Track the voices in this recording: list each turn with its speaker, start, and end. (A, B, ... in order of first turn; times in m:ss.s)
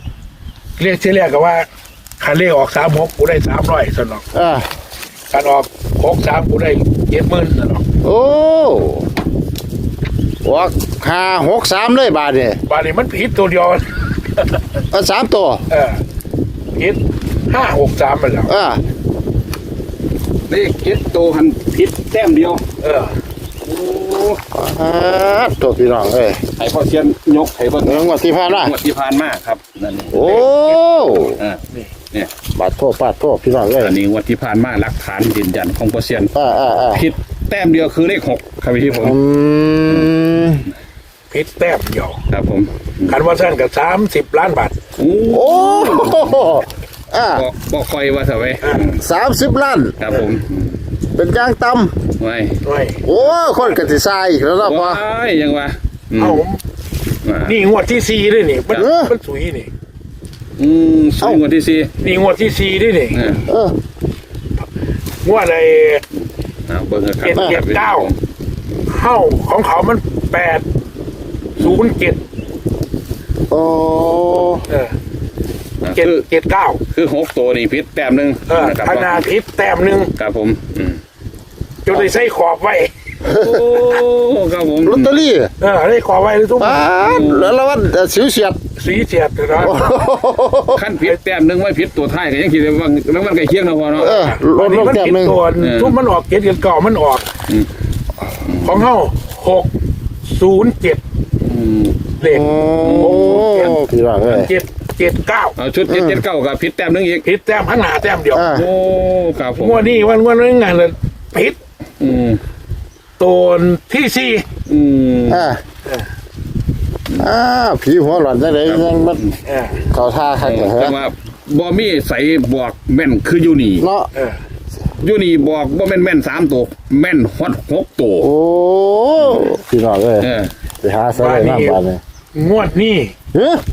0:00.8-0:01.7 A
0:02.2-0:04.2 A
0:04.3-0:04.7 B
0:05.3-0:07.8 A
0:08.0-0:09.1 B
0:10.4-0:12.6 B
0:12.7-0:13.8 A
0:14.9-0:15.6 B
0:15.7-0:16.0 A
0:16.8-0:18.5 A
0:18.5-0:18.8 B
0:20.5-0:22.6 C
0:22.8-0:23.1 A
0:23.6-0:24.4 C
0:24.5-0:26.4 B
0:26.6-0:30.4 C
0:27.8-0:28.8 B
0:30.1-0:31.4 B
0:30.2-0:30.8 A
0:31.2-0:31.6 C
0:32.5-0:34.0 B
0:33.8-0:36.3 C
0:36.3-0:37.1 B
0:36.9-0:39.2 C
0:38.9-0:40.7 B
0:41.3-0:42.2 A
0:42.3-0:43.2 C
0:43.1-0:44.8 A
0:45.0-0:46.6 C
0:45.3-0:47.4 B
0:47.3-0:49.0 C
0:48.6-0:48.9 A
0:49.0-0:50.0 B
0:50.0-0:50.8 C
0:51.2-0:51.9 B
0:52.2-0:52.6 C
0:52.6-0:53.9 A
0:53.1-0:55.0 B
0:54.6-0:56.4 C
0:56.2-0:56.6 A
0:57.2-0:57.6 C
0:57.4-0:59.7 A
0:58.7-0:59.1 B
1:00.6-1:01.9 C
1:02.0-1:03.2 A
1:03.1-1:03.4 C
1:03.5-1:03.8 B
1:05.2-1:06.0 A
1:06.7-1:08.2 C
1:07.2-1:08.1 A
1:08.9-1:10.6 A
1:11.6-1:12.2 A
1:13.5-1:14.7 B
1:14.7-1:14.9 A
1:15.8-1:16.2 C
1:15.9-1:16.8 A
1:16.9-1:19.3 C
1:18.5-1:20.1 A
1:20.2-1:21.0 C
1:21.8-1:22.9 A
1:23.2-1:23.8 B
1:23.2-1:25.2 C
1:24.8-1:25.5 B
1:25.6-1:26.9 A
1:26.6-1:28.6 B
1:27.0-1:27.6 C
1:28.8-1:29.9 A
1:29.6-1:30.8 B
1:30.7-1:34.2 C
1:33.9-1:37.3 A
1:34.0-1:35.4 B
1:35.6-1:36.0 C
1:38.4-1:38.9 C
1:38.6-1:39.7 A
1:40.2-1:41.0 A
1:41.5-1:42.1 C
1:42.2-1:45.6 A
1:42.2-1:44.5 B
1:42.8-1:43.6 C
1:45.6-1:47.2 C
1:45.9-1:46.2 B
1:47.2-1:48.5 A
1:48.3-1:48.7 B
1:48.4-1:50.0 C
1:49.6-1:51.6 A
1:52.0-1:52.4 C
1:53.2-1:54.5 A
1:54.7-1:55.5 C
1:55.3-1:55.6 B
1:57.2-1:59.2 B
1:58.6-1:59.4 C
1:59.5-1:59.8 A
1:59.9-2:01.0 B
2:00.4-2:03.9 C
2:03.8-2:04.1 B
2:04.1-2:04.4 A
2:05.0-2:08.3 C
2:08.2-2:10.3 B
2:09.2-2:09.5 C
2:10.2-2:10.5 C
2:10.8-2:12.0 B
2:11.1-2:11.8 A
2:12.4-2:13.1 A
2:13.3-2:13.6 B